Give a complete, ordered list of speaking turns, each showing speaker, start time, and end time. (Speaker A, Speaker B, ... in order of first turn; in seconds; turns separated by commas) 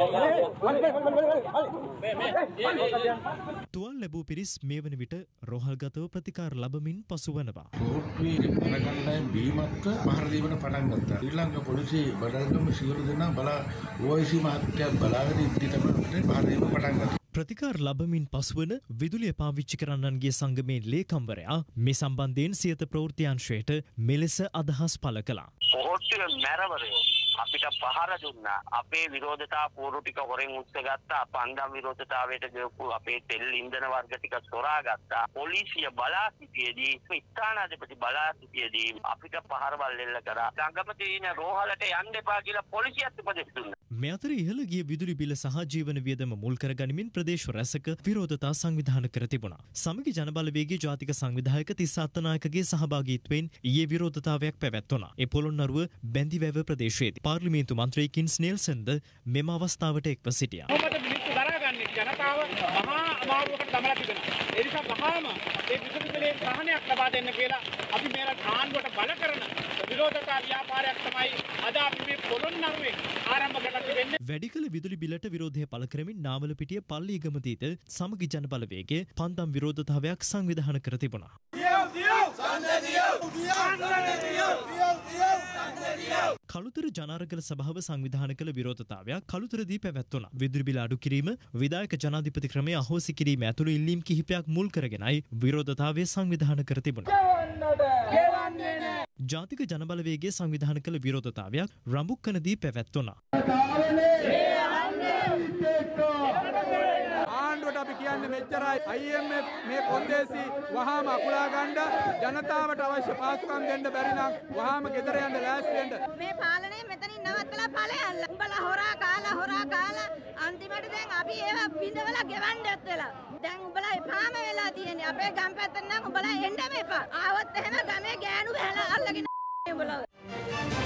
Speaker A: 3.7-7.7, Speaker B: 7.8-17.1, Speaker A: 17.4-25.5, Speaker C: 25.7-43.8, Speaker A: 44.0-60.7, Speaker D: 60.7-74.1, Speaker A: 74.2-81.3, Speaker A: 86.5-97.1, Speaker A: 99.3-103.2, Speaker E: 104.5-105.5, Speaker F: 107.3-116.0, Speaker E: 116.0-130.0